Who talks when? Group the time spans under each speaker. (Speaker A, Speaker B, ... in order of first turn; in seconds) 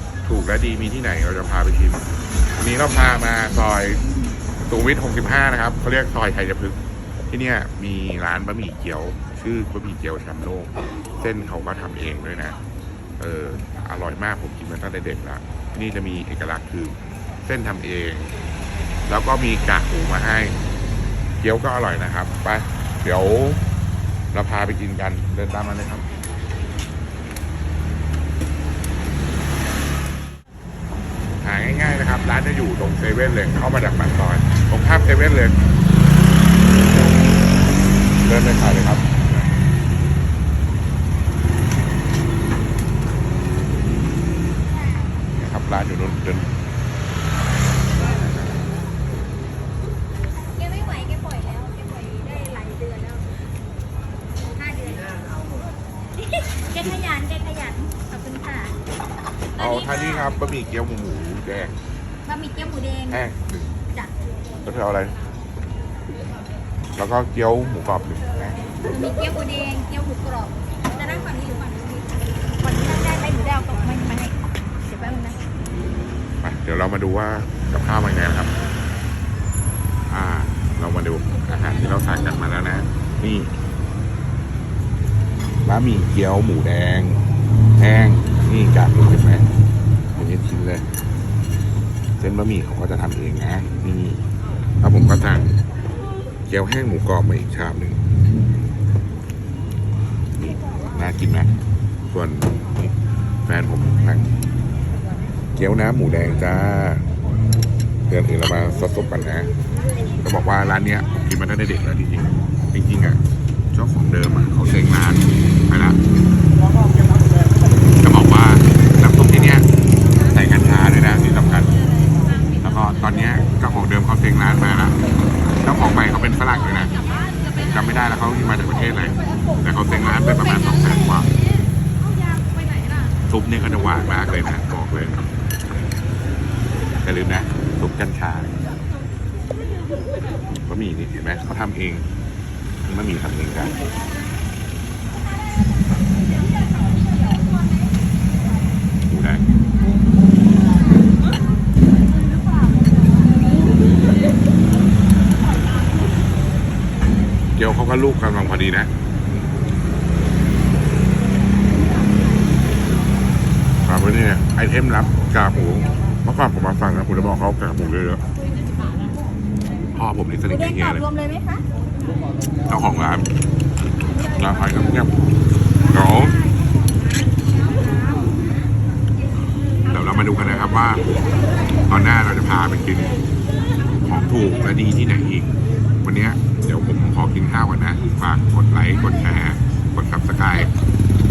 Speaker A: 0.2-4.1, 4.6-6.8, 7.3-12.6, 13.2-18.3, 19.1-20.6, 21.4-23.6, 24.3-26.1, 31.4-35.6, 38.2-39.3, 45.3-46.5, 59.6-61.8, 63.1-63.8, 64.6-65.2, 67.0-68.7, 76.4-78.5, 80.1-83.6, 85.7-87.2, 87.8-89.5, 90.2-90.9, 92.2-94.2, 94.8-95.6, 96.5-98.0, 100.4-101.5, 102.1-102.9, 103.5-104.3, 105.6-107.1, 108.1-109.5, 110.2-113.2, 113.7-116.0, 118.0-119.7, 120.3-121.8, 122.6-125.0, 125.6-127.0, 127.6-131.3, 133.3-135.3, 137.0-138.6, 140.5-142.1, 142.8-143.8, 149.1-149.6, 157.6-158.9, 163.8-168.2, 169.9-171.1, 172.7-173.3, 174.3-175.1, 175.9-176.4, 179.8-181.1, 181.9-183.2, 183.8-190.7
Speaker B: 44.8-45.1, 50.5-53.4, 54.4-55.4, 56.3-58.8, 59.6-60.3, 62.3-63.2, 68.8-75.5, 170.5-171.6